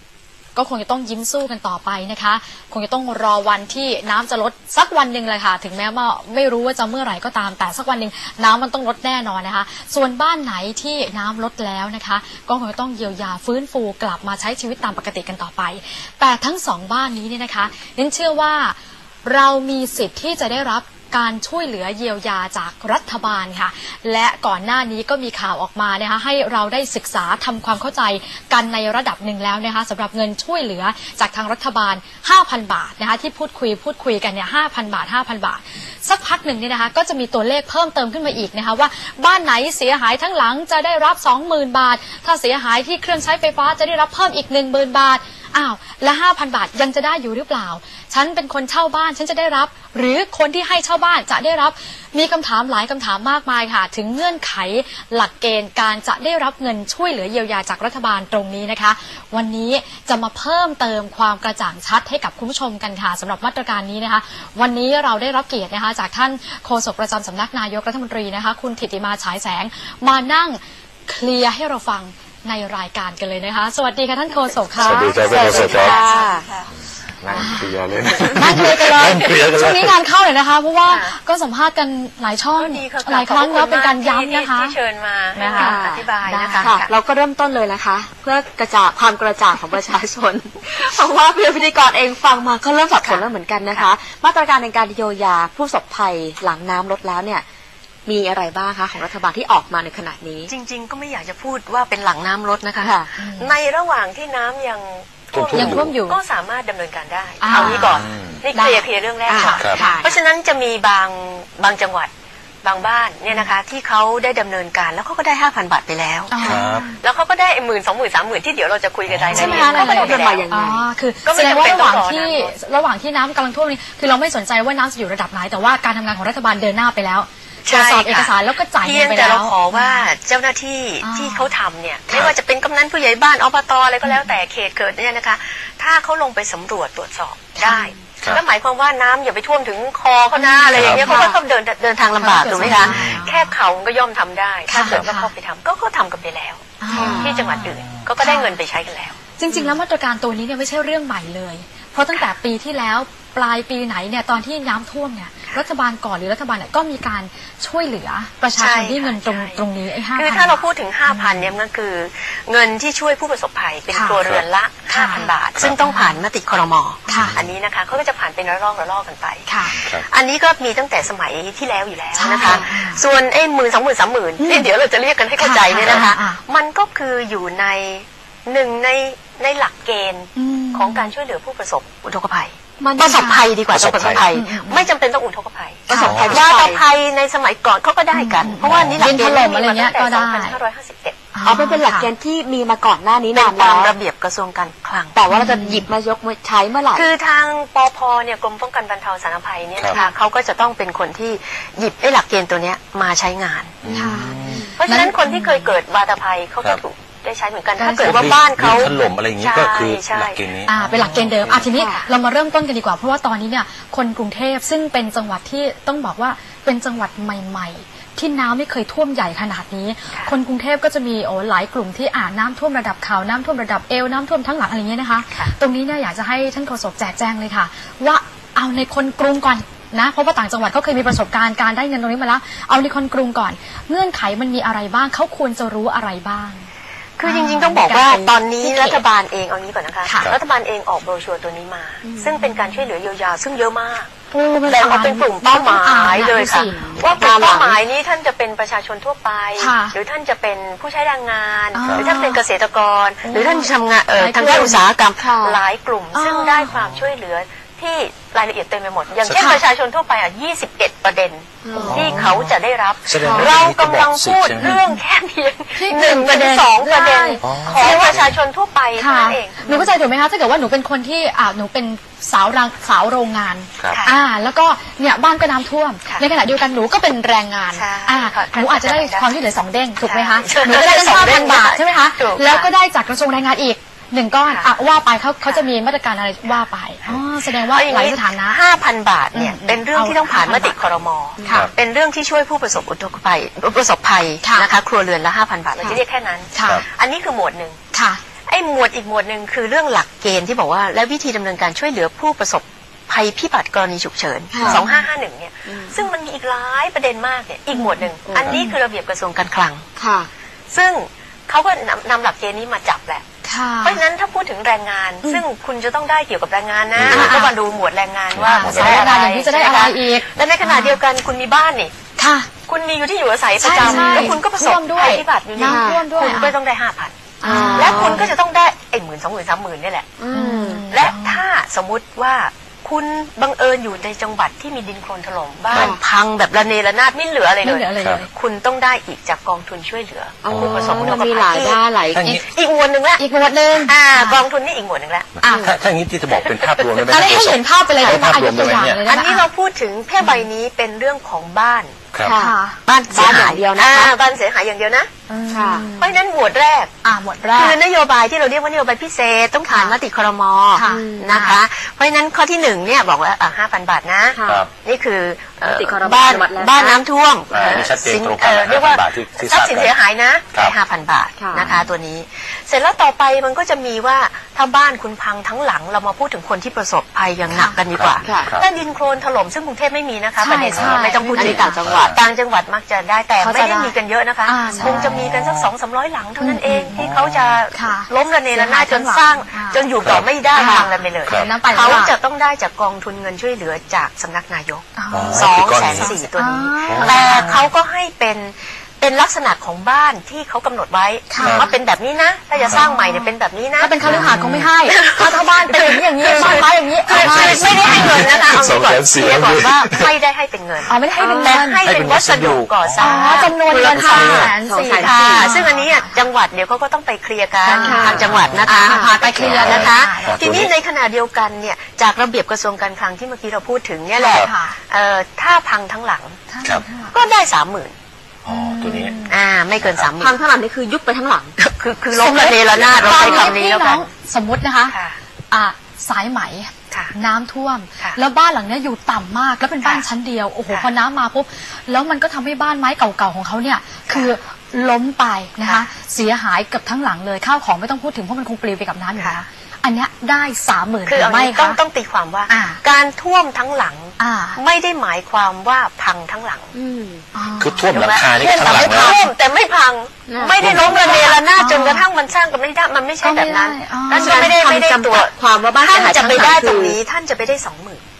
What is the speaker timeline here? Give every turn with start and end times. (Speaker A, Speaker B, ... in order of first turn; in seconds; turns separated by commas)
Speaker A: 0.5-76.2, Speaker B: 74.8-76.0, Speaker C: 74.8-76.4, Speaker D: 75.2-76.6, Speaker B: 77.2-79.9, Speaker A: 77.3-77.7, Speaker A: 78.3-84.8, Speaker C: 80.8-81.1, Speaker C: 82.6-86.9, Speaker A: 85.3-86.7, Speaker D: 85.5-86.1, Speaker D: 86.6-97.4, Speaker C: 92.9-93.9, Speaker D: 98.0-100.5, Speaker C: 100.5-112.1, Speaker D: 102.8-103.1, Speaker A: 103.2-103.5, Speaker B: 105.3-105.9, Speaker A: 105.5-106.2, Speaker A: 107.4-108.0, Speaker D: 107.5-107.8, Speaker B: 107.9-108.4, Speaker A: 108.5-110.0, Speaker D: 109.3-110.2, Speaker C: 112.6-120.4, Speaker A: 116.3-117.0, Speaker B: 116.4-116.9, Speaker B: 119.1-119.6, Speaker A: 119.3-130.1, Speaker D: 119.4-120.8, Speaker C: 121.2-122.5, Speaker C: 127.7-149.1, Speaker A: 131.0-131.5, Speaker A: 134.0-134.3, Speaker A: 137.6-137.9, Speaker A: 140.3-141.4, Speaker B: 140.7-141.1, Speaker A: 142.2-143.5, Speaker B: 142.6-143.2, Speaker A: 144.7-145.3, Speaker A: 146.8-148.5, Speaker D: 146.9-147.3, Speaker A: 149.4-161.5, Speaker C: 158.6-191.3, Speaker A: 163.9-164.2, Speaker A: 164.9-166.2, Speaker A: 167.1-167.3, Speaker B: 167.2-167.5, Speaker A: 169.5-169.8, Speaker B: 169.7-170.1, Speaker A: 172.2-173.0, Speaker A: 174.4-174.7, Speaker A: 175.4-176.4, Speaker A: 180.3-181.1, Speaker D: 182.8-183.4, Speaker A: 183.1-183.4, Speaker B: 183.7-184.3, Speaker A: 184.3-184.9, Speaker D: 185.9-186.8, Speaker B: 186.0-186.5, Speaker A: 188.1-190.6, Speaker B: 188.6-189.2, Speaker A: 191.3-192.1, Speaker D: 191.4-193.9, Speaker C: 193.3-195.2, Speaker D: 195.1-197.1, Speaker A: 195.3-195.9, Speaker C: 196.9-203.8, Speaker B: 203.8-204.6, Speaker A: 203.8-204.3, Speaker D: 204.4-204.7, Speaker C: 204.8-210.4, Speaker A: 204.8-205.5, Speaker A: 207.8-208.3, Speaker B: 208.0-211.7, Speaker A: 210.7-236.7, Speaker C: 211.8-212.1, Speaker C: 237.2-244.1, Speaker A: 237.2-239.0, Speaker D: 242.0-242.4, Speaker A: 244.3-246.9, Speaker C: 244.7-269.8, Speaker D: 246.5-247.8, Speaker A: 249.6-249.9, Speaker A: 251.7-252.4, Speaker A: 253.2-254.9, Speaker D: 254.4-255.6, Speaker A: 256.1-256.7, Speaker B: 259.2-259.6, Speaker A: 259.4-259.6, Speaker D: 261.6-262.1, Speaker B: 261.8-262.5, Speaker A: 261.8-262.4, Speaker B: 263.1-264.8, Speaker D: 263.2-263.5, Speaker A: 264.6-264.9, Speaker A: 265.8-268.2, Speaker B: 267.4-268.4, Speaker A: 269.0-288.6, Speaker C: 273.9-274.2, Speaker C: 277.7-279.3, Speaker C: 280.0-282.7, Speaker C: 287.1-297.8, Speaker A: 289.3-290.8, Speaker A: 294.4-294.7, Speaker A: 296.5-296.8, Speaker A: 297.9-298.2, Speaker C: 298.5-309.8, Speaker D: 304.5-304.8, Speaker A: 304.6-305.0, Speaker D: 305.7-306.0, Speaker D: 308.2-308.6, Speaker A: 308.4-308.7, Speaker D: 310.0-310.3, Speaker C: 310.7-313.2, Speaker A: 313.4-314.0, Speaker C: 313.8-321.9, Speaker B: 316.9-317.4, Speaker A: 317.1-317.5, Speaker B: 318.3-319.1, Speaker A: 318.4-321.0, Speaker A: 322.2-322.5, Speaker C: 322.7-330.2, Speaker A: 323.6-326.5, Speaker D: 323.8-324.4, Speaker D: 325.6-326.0, Speaker A: 327.4-328.3, Speaker D: 327.4-328.2, Speaker B: 327.9-328.1, Speaker D: 330.2-330.9, Speaker A: 330.3-331.4, Speaker C: 330.9-343.2, Speaker B: 335.7-335.9, Speaker D: 335.7-336.0, Speaker A: 337.6-338.3, Speaker B: 338.0-338.2, Speaker D: 340.4-342.3, Speaker B: 340.5-341.1, Speaker B: 342.1-342.4, Speaker A: 343.2-344.4, Speaker C: 343.8-345.3, Speaker B: 345.4-349.0, Speaker A: 345.4-345.7, Speaker D: 345.4-345.7, Speaker C: 346.3-346.9, Speaker A: 347.1-349.4, Speaker C: 349.0-352.0, Speaker D: 352.2-352.5, Speaker A: 352.3-352.8, Speaker C: 352.8-355.1, Speaker D: 353.1-354.1, Speaker A: 355.3-356.1, Speaker D: 355.5-355.9, Speaker C: 355.9-356.9, Speaker A: 357.0-357.8, Speaker C: 357.5-404.3, Speaker A: 359.7-359.9, Speaker A: 360.7-361.6, Speaker D: 360.8-361.3, Speaker D: 364.3-364.6, Speaker D: 365.6-367.0, Speaker B: 367.5-369.9, Speaker D: 371.4-371.7, Speaker A: 377.5-377.8, Speaker B: 377.9-378.6, Speaker D: 378.2-378.5, Speaker A: 380.4-381.8, Speaker D: 380.7-382.1, Speaker B: 381.8-382.2, Speaker A: 383.4-383.9, Speaker A: 384.4-385.2, Speaker B: 384.9-385.7, Speaker A: 386.4-387.1, Speaker B: 386.9-387.6, Speaker A: 387.7-389.8, Speaker B: 390.0-390.3, Speaker A: 390.5-392.1, Speaker D: 390.6-390.9, Speaker B: 391.2-391.5, Speaker A: 394.9-397.5, Speaker B: 395.1-396.1, Speaker B: 396.9-397.6, Speaker A: 401.3-401.7, Speaker B: 401.4-401.7, Speaker A: 402.5-408.6, Speaker B: 404.0-404.7, Speaker C: 404.8-426.4, Speaker B: 406.3-410.1, Speaker A: 410.9-411.8, Speaker B: 411.4-414.5, Speaker A: 413.0-416.2, Speaker D: 413.6-415.5, Speaker A: 417.6-420.4, Speaker D: 417.7-419.1, Speaker B: 418.0-418.7, Speaker B: 419.3-420.7, Speaker A: 424.2-424.8, Speaker A: 426.5-427.1, Speaker C: 427.1-427.9, Speaker B: 428.4-429.1, Speaker A: 428.5-429.4, Speaker C: 429.3-430.4, Speaker B: 429.8-430.1, Speaker D: 430.2-431.5, Speaker C: 431.6-434.1, Speaker A: 432.1-434.9, Speaker B: 432.7-433.5, Speaker C: 434.9-435.2, Speaker A: 435.5-451.8, Speaker C: 451.1-456.7, Speaker A: 452.5-452.8, Speaker A: 454.2-454.6, Speaker D: 456.7-457.2, Speaker A: 457.3-459.3, Speaker B: 457.6-459.2, Speaker C: 457.9-468.0, Speaker D: 460.3-461.1, Speaker B: 460.6-461.4, Speaker A: 461.5-462.1, Speaker A: 463.2-464.5, Speaker D: 464.1-467.0